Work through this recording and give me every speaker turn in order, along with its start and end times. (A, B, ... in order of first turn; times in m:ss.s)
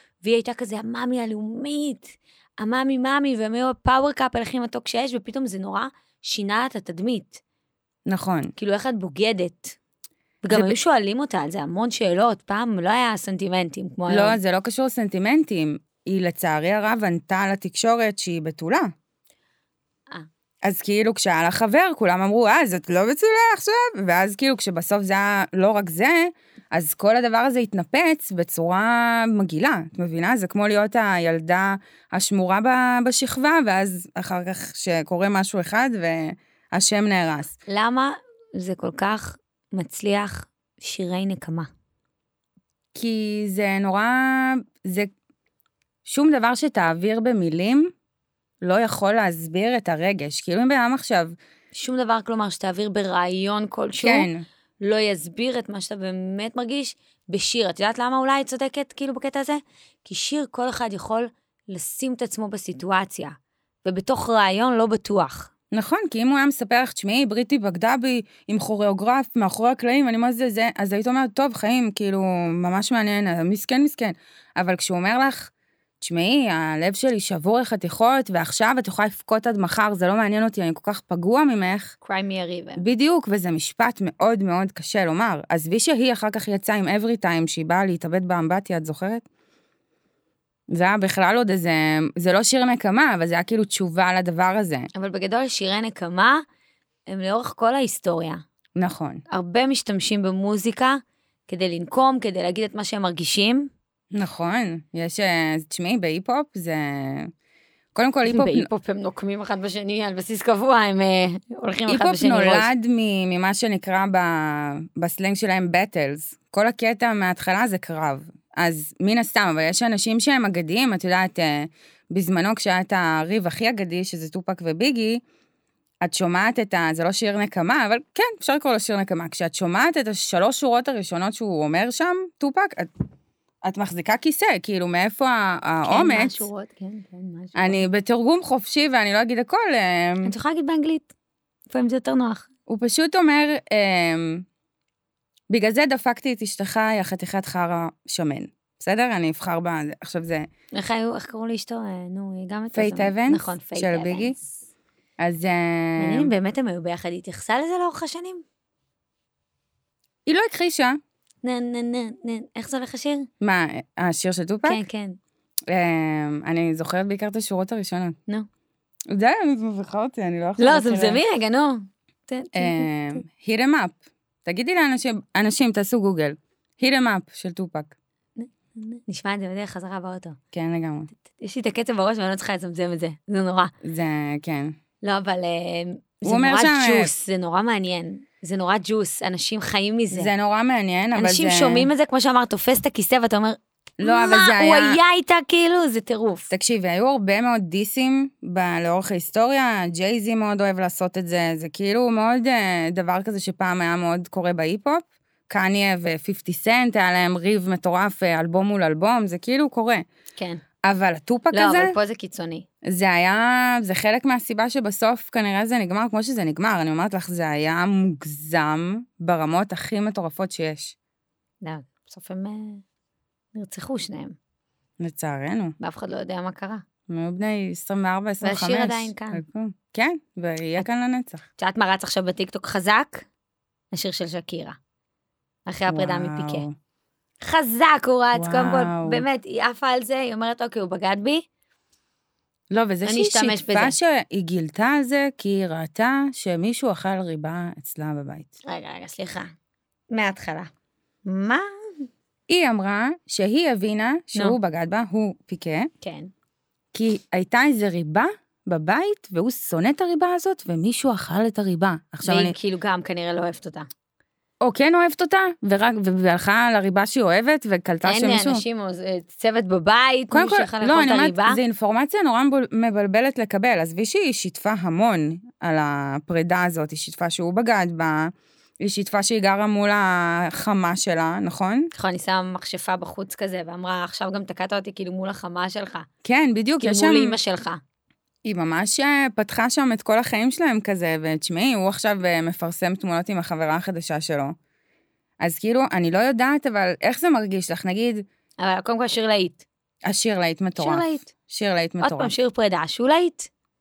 0:00.2-0:07.4 A
0:08.0-0:08.5 B
0:08.6-0:09.8 A
0:10.4-0:14.4 A
0:10.5-0:10.8 B
0:14.1-0:18.9 B
0:20.6-0:37.6 B
0:37.7-0:41.7 A
0:42.9-0:45.1 B
0:46.0-0:47.9 B
0:48.6-0:51.3 B
0:51.7-0:54.3 A
0:54.0-0:54.4 B
0:54.8-1:05.5 A
1:05.7-1:15.5 B
1:16.0-1:21.9 B
1:22.0-1:22.8 A
1:22.8-1:29.2 B
1:30.7-1:34.9 B
1:34.9-1:36.4 A
1:37.1-1:38.4 A
1:38.8-1:39.2 B
1:39.3-1:43.7 A
1:44.1-1:47.3 B
1:47.9-1:48.7 B
1:48.2-1:52.7 A
1:51.9-2:05.2 B
2:06.0-2:12.9 B
2:13.6-2:16.5 B
2:15.8-2:17.8 A
2:17.6-2:20.3 B
2:20.2-2:21.1 A
2:21.7-2:22.4 A
2:22.7-2:24.4 B
2:25.5-2:30.5 B
2:30.7-2:34.6 A
2:32.7-2:34.4 B
2:35.2-2:36.3 B
2:36.0-2:38.4 A
2:40.2-2:41.0 B
2:41.4-2:43.3 A
2:43.4-2:44.8 B
2:44.6-2:45.2 A
2:45.7-2:48.2 B
2:49.1-2:51.2 B
2:50.6-2:53.2 A
2:52.5-2:57.9 B
2:58.4-3:00.4 A
3:00.5-3:01.1 B
3:01.3-3:03.7 A
3:03.8-3:04.7 B
3:05.0-3:10.3 A
3:06.2-3:07.1 B
3:10.1-3:11.9 B
3:11.1-3:16.5 A
3:14.0-3:15.0 B
3:16.5-3:30.0 B
3:30.4-3:30.6 A
3:30.8-3:32.0 B
3:31.5-3:32.6 A
3:32.8-3:40.9 B
3:41.6-3:42.8 A
3:43.5-3:44.3 A
3:45.0-3:45.7 B
3:45.8-3:46.8 A
3:47.1-3:51.4 B
3:48.4-3:49.4 A
3:51.6-3:53.2 A
3:53.9-3:54.8 A
3:55.6-3:56.6 A
3:55.9-3:56.7 B
3:57.4-4:01.4 A
3:58.3-3:59.2 B
4:02.7-4:08.5 B
4:03.0-4:04.0 A
4:08.7-4:09.5 A
4:10.1-4:10.7 A
4:11.2-4:12.1 A
4:12.5-4:15.9 B
4:16.0-4:16.3 A
4:16.9-4:22.5 B
4:22.2-4:23.9 A
4:24.6-4:28.6 B
4:28.0-4:31.6 A
4:30.3-4:41.9 B
4:41.9-4:46.1 A
4:46.2-4:47.4 B
4:46.8-4:47.8 A
4:48.4-4:54.6 B
4:55.4-4:58.2 B
4:58.6-4:59.6 A
5:00.0-5:02.3 B
5:00.8-5:01.3 A
5:02.0-5:03.5 A